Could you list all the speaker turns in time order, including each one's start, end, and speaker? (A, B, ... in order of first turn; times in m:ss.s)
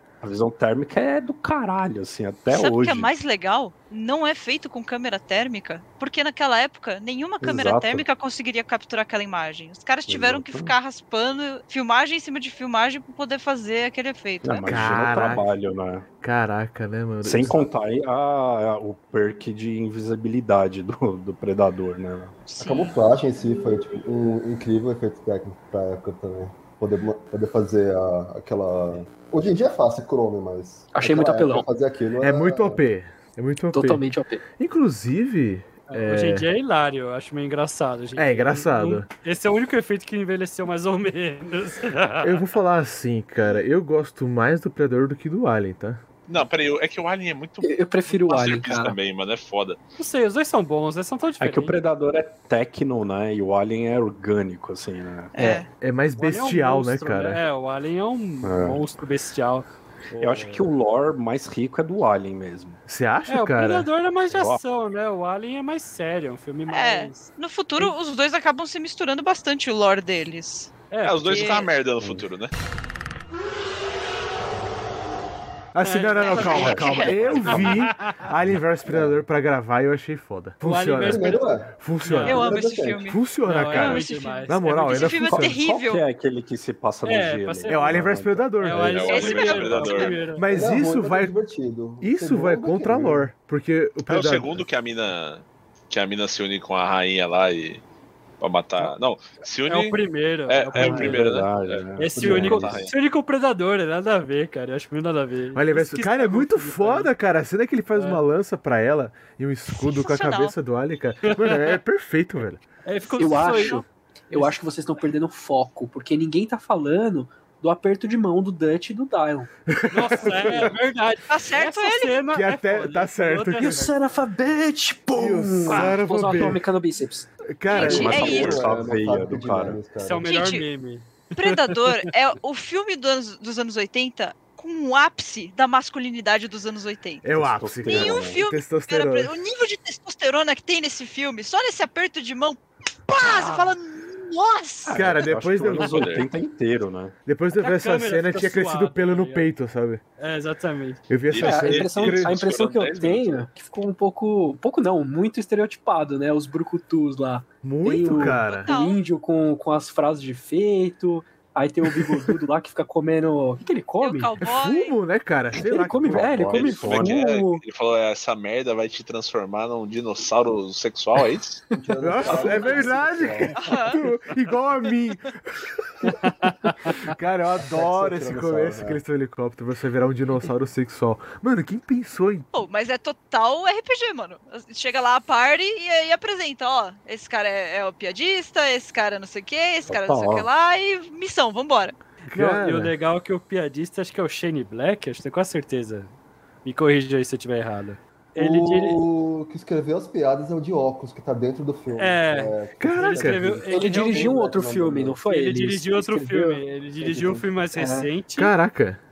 0:00.2-0:03.1 A
0:02.5-0:15.0 B
0:07.4-0:08.1 A
0:10.1-0:10.8 A
0:14.4-0:16.0 A
0:14.6-0:15.5 C
0:16.2-0:17.6 C
0:17.2-0:22.5 A
0:22.5-0:23.0 B
0:22.6-0:32.8 D
0:30.9-0:31.7 E
0:32.2-0:34.1 C
0:33.7-0:34.4 E
0:34.6-0:36.4 C
0:35.9-0:42.5 F
0:38.2-0:39.1 C
0:42.2-0:46.0 C
0:46.3-0:49.8 G
0:47.6-0:48.9 E
0:50.0-0:51.8 F
0:51.4-0:55.3 A
0:55.3-0:55.7 B
0:55.4-0:57.4 C
0:56.2-1:00.7 F
0:58.4-0:58.8 A
1:00.2-1:02.8 A
1:02.8-1:03.9 C
1:03.2-1:07.9 F
1:04.3-1:04.6 A
1:06.7-1:10.7 B
1:10.9-1:11.7 F
1:11.0-1:12.5 G
1:11.2-1:11.6 B
1:12.0-1:12.2 A
1:15.7-1:25.6 C
1:15.8-1:18.3 F
1:16.2-1:17.3 B
1:16.6-1:17.4 A
1:18.8-1:19.2 D
1:20.6-1:22.6 F
1:21.0-1:21.7 D
1:22.2-1:26.0 B
1:22.3-1:23.1 D
1:23.4-1:25.4 F
1:25.3-1:29.0 A
1:27.0-1:28.1 F
1:27.7-1:29.1 C
1:28.6-1:30.6 F
1:28.8-1:30.2 G
1:29.0-1:30.2 B
1:30.3-1:31.4 C
1:30.5-1:33.3 D
1:32.0-1:34.7 C
1:34.1-1:37.8 G
1:38.4-1:42.9 G
1:39.7-1:47.1 F
1:40.7-1:42.8 A
1:42.1-1:42.8 D
1:45.5-1:52.6 C
1:47.9-1:48.2 F
1:49.7-1:50.5 B
1:51.2-1:51.8 F
1:52.8-1:54.6 F
1:53.2-1:59.5 E
1:59.7-2:00.7 C
1:59.9-2:03.9 F
2:01.3-2:02.2 B
2:02.3-2:03.8 C
2:03.6-2:07.3 E
2:05.2-2:06.6 C
2:07.6-2:08.4 C
2:07.7-2:08.6 B
2:07.8-2:10.4 D
2:07.8-2:09.8 A
2:09.9-2:12.1 F
2:10.2-2:10.7 B
2:11.4-2:17.3 B
2:17.2-2:19.3 C
2:17.3-2:18.4 A
2:17.8-2:25.1 B
2:23.2-2:23.7 F
2:24.8-2:27.1 A
2:24.9-2:26.1 C
2:25.7-2:26.2 G
2:27.2-2:30.0 C
2:27.5-2:29.5 F
2:30.2-2:31.0 F
2:31.1-2:32.3 C
2:31.3-2:33.4 G
2:31.4-2:44.3 E
2:37.6-2:38.7 C
2:38.2-2:39.0 B
2:44.0-2:44.9 B
2:44.4-2:46.3 C
2:45.5-2:47.6 E
2:46.1-2:46.6 D
2:46.5-2:47.2 A
2:46.5-2:51.6 G
2:51.7-2:53.8 D
2:52.0-2:55.8 C
2:53.5-2:54.0 B
2:56.5-2:57.0 F
2:57.0-3:02.5 C
2:57.6-2:59.0 D
3:02.5-3:12.0 B
3:09.9-3:10.5 A
3:12.3-3:12.9 C
3:12.3-3:16.1 F
3:16.6-3:19.0 F
3:18.4-3:25.2 D
3:22.0-3:24.4 F
3:22.8-3:23.5 C
3:23.7-3:26.6 E
3:25.3-3:28.5 F
3:27.0-3:27.5 D
3:27.7-3:28.1 E
3:28.4-3:29.0 C